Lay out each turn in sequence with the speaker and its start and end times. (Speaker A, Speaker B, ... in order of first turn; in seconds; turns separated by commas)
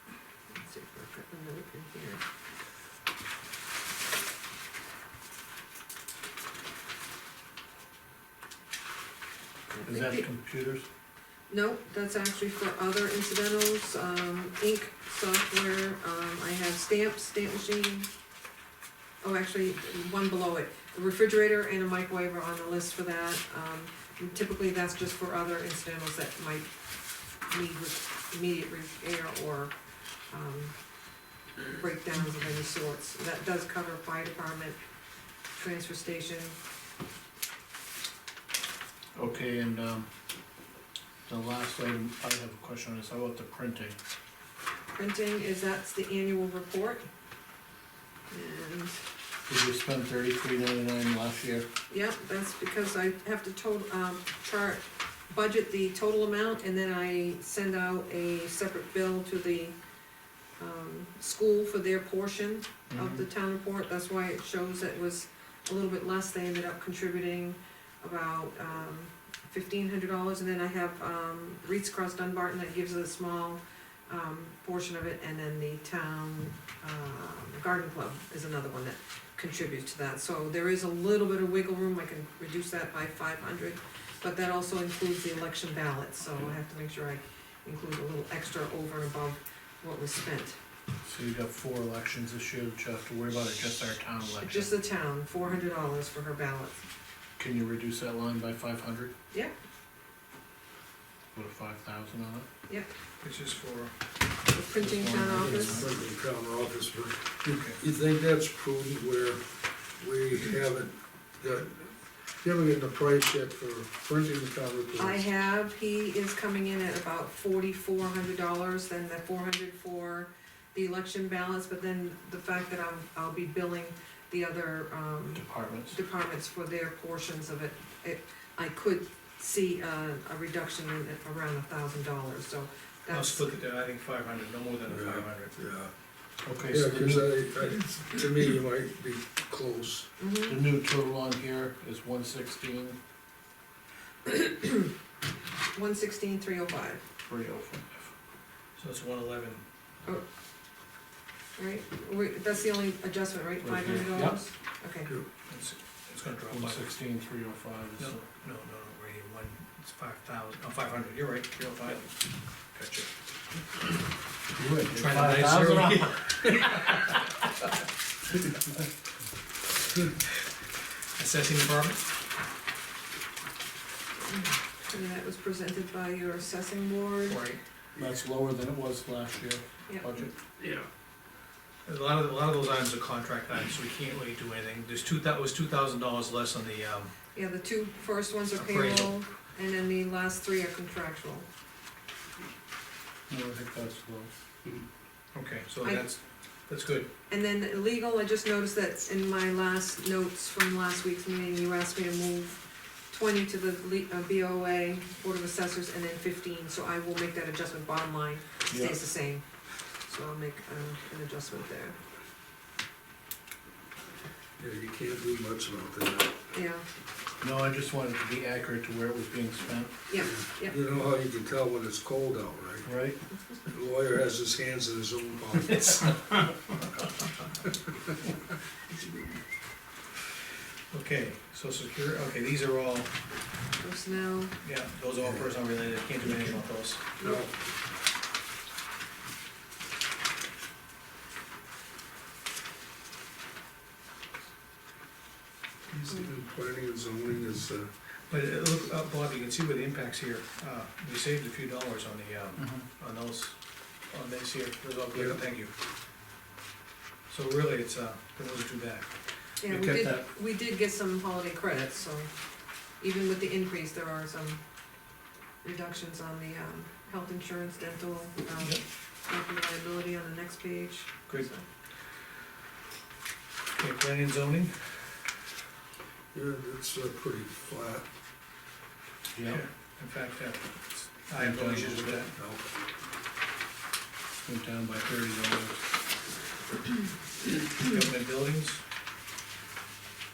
Speaker A: 0.5-2.2, Speaker B: 9.7-10.9, Speaker A: 9.8-10.3, Speaker A: 11.5-18.1, Speaker A: 19.2-26.7, Speaker A: 27.4-29.8, Speaker A: 30.3-30.8, Speaker A: 31.7-34.8, Speaker A: 35.6-36.6, Speaker B: 39.1-40.1, Speaker B: 41.3-44.0, Speaker A: 44.9-47.0, Speaker A: 48.3-49.0, Speaker B: 49.5-51.7, Speaker A: 51.9-59.8, Speaker A: 60.6-90.6, Speaker B: 62.9-63.2, Speaker B: 91.0-94.7, Speaker A: 94.4-96.8, Speaker B: 97.4-99.1, Speaker B: 101.3-102.5, Speaker C: 103.2-104.0, Speaker A: 104.5-105.9, Speaker B: 104.8-105.9, Speaker D: 105.5-115.2, Speaker C: 107.5-107.8, Speaker A: 115.0-133.4, Speaker B: 125.3-126.0, Speaker C: 133.1-135.6, Speaker D: 134.9-135.9, Speaker B: 136.4-137.3, Speaker D: 136.7-140.1, Speaker A: 140.2-140.6, Speaker B: 140.5-143.0, Speaker A: 144.3-144.9, Speaker A: 145.7-147.0, Speaker B: 147.3-148.1, Speaker C: 148.8-149.6, Speaker A: 151.6-155.1, Speaker B: 153.6-154.4, Speaker C: 155.5-156.9, Speaker B: 156.5-158.2, Speaker C: 158.0-163.1, Speaker B: 164.6-167.1, Speaker C: 164.9-167.0, Speaker C: 171.2-172.1, Speaker A: 174.3-177.5, Speaker C: 177.3-177.6, Speaker B: 178.0-180.3, Speaker D: 180.6-180.9, Speaker C: 181.8-187.1, Speaker A: 187.3-191.5, Speaker C: 188.6-189.2, Speaker B: 193.3-194.3, Speaker C: 195.3-197.1, Speaker A: 197.3-209.4, Speaker B: 208.7-209.0, Speaker A: 210.1-212.0, Speaker D: 214.6-216.4, Speaker A: 216.5-216.8, Speaker B: 217.4-219.9, Speaker A: 220.1-220.8, Speaker D: 220.2-223.0, Speaker B: 222.8-223.2, Speaker D: 223.7-226.2, Speaker C: 225.9-226.5, Speaker C: 230.9-233.2, Speaker A: 233.8-234.6, Speaker C: 234.6-237.1, Speaker D: 237.2-237.5, Speaker D: 245.9-247.9, Speaker C: 248.3-255.7, Speaker B: 252.6-252.9, Speaker D: 255.1-255.4, Speaker C: 257.3-260.2, Speaker A: 259.6-262.3, Speaker B: 259.8-260.2, Speaker A: 263.0-264.6, Speaker A: 265.6-271.6, Speaker C: 273.8-275.0, Speaker D: 276.3-278.1, Speaker B: 279.3-279.6, Speaker C: 279.4-282.3, Speaker B: 281.4-281.9, Speaker D: 281.6-282.6, Speaker B: 284.4-285.8, Speaker C: 287.7-288.8